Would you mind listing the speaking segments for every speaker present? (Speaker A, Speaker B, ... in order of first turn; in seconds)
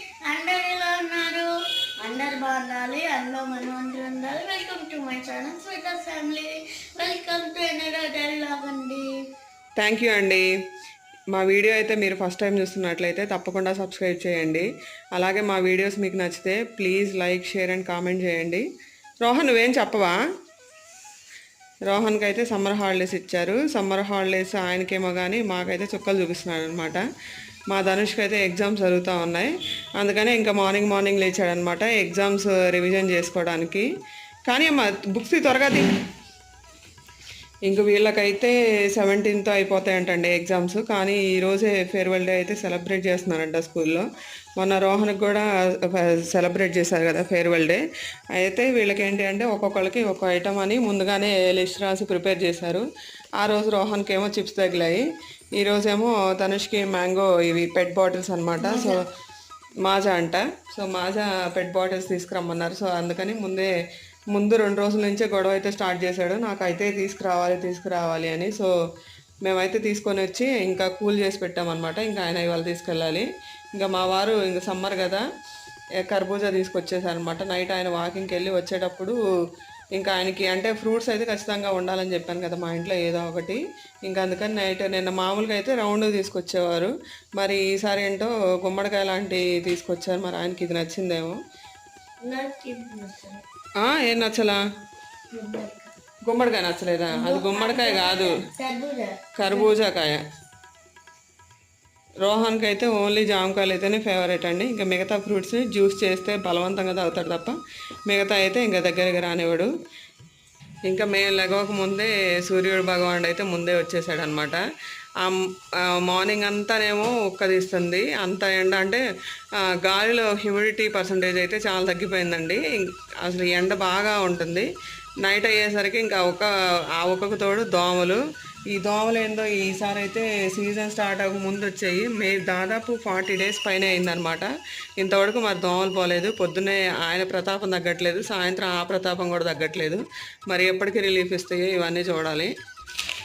Speaker A: 0.3-1.5, 2.0-9.1, 58.6-59.0, 92.2-93.4, 95.3-95.9, 97.1-99.8
Speaker B: 9.8-10.5, 11.3-18.6, 19.2-20.2, 21.9-27.0, 27.7-33.9, 34.5-35.9, 37.7-44.1, 44.6-47.8, 48.4-52.9, 53.4-59.0, 59.8-63.7, 64.3-68.7, 69.4-75.2, 76.0-79.2, 80.0-91.4, 93.8-94.6, 96.2-98.4, 99.4-100.2, 102.2-107.5, 108.1-109.7, 110.9-114.6, 115.2-119.0, 119.6-124.7, 125.2-128.2, 128.7-142.5